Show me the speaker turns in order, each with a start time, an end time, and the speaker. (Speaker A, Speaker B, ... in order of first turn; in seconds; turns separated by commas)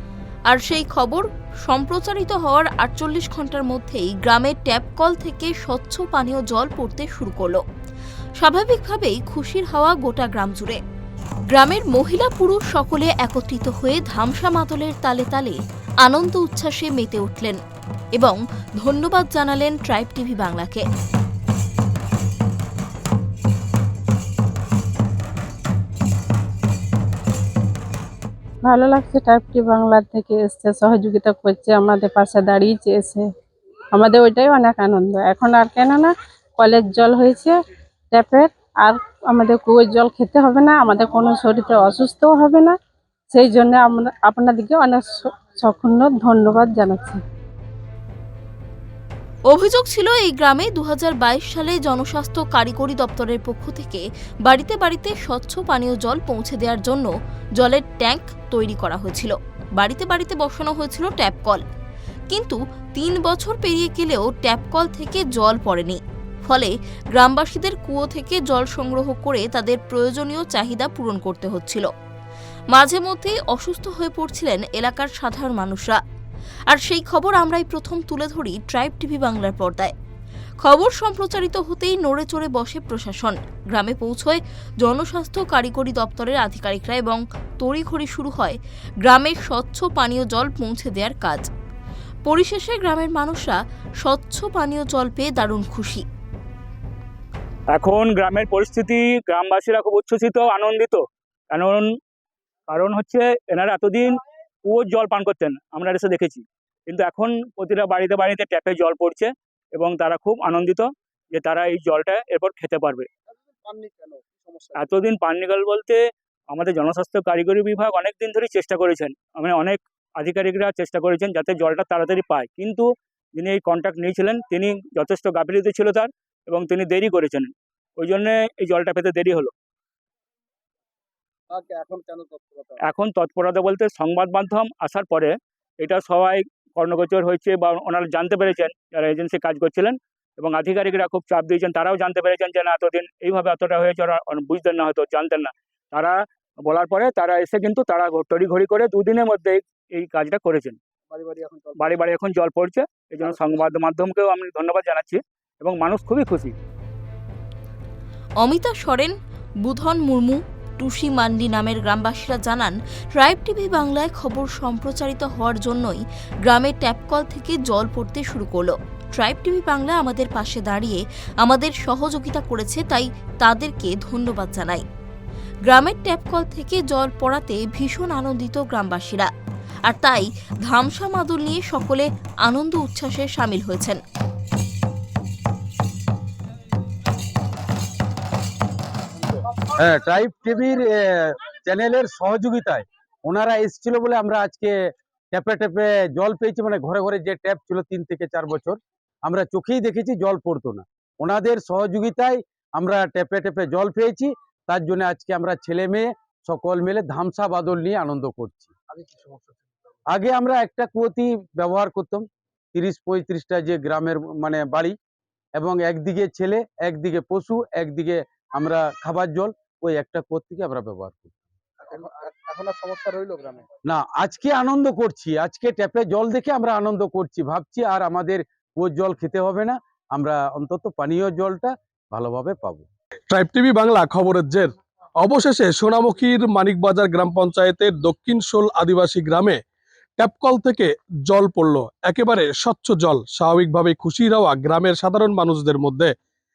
Speaker A: 0.5-7.6, Speaker A: 8.4-10.8, Speaker A: 11.5-17.6, Speaker A: 18.2-20.9, Speaker B: 28.6-33.2, Speaker B: 33.9-37.5, Speaker B: 38.1-42.8, Speaker B: 43.3-47.2, Speaker A: 49.5-61.6, Speaker A: 62.3-71.9, Speaker A: 72.7-76.0, Speaker A: 76.7-79.9, Speaker A: 80.6-91.5, Speaker A: 92.2-96.0, Speaker C: 97.7-101.9, Speaker C: 102.7-104.1, Speaker C: 104.7-113.1, Speaker D: 113.6-114.7, Speaker C: 114.7-116.0, Speaker C: 116.5-129.5, Speaker D: 131.5-132.8, Speaker C: 132.8-150.8, Speaker D: 151.1-151.7, Speaker C: 151.8-156.5, Speaker A: 158.4-174.8, Speaker A: 175.7-179.3, Speaker A: 179.9-184.0, Speaker E: 189.8-194.8, Speaker E: 195.3-208.7, Speaker E: 210.1-214.9, Speaker E: 215.6-221.3, Speaker D: 221.9-223.6, Speaker E: 223.9-232.9, Speaker F: 233.3-239.6, Speaker F: 240.2-246.1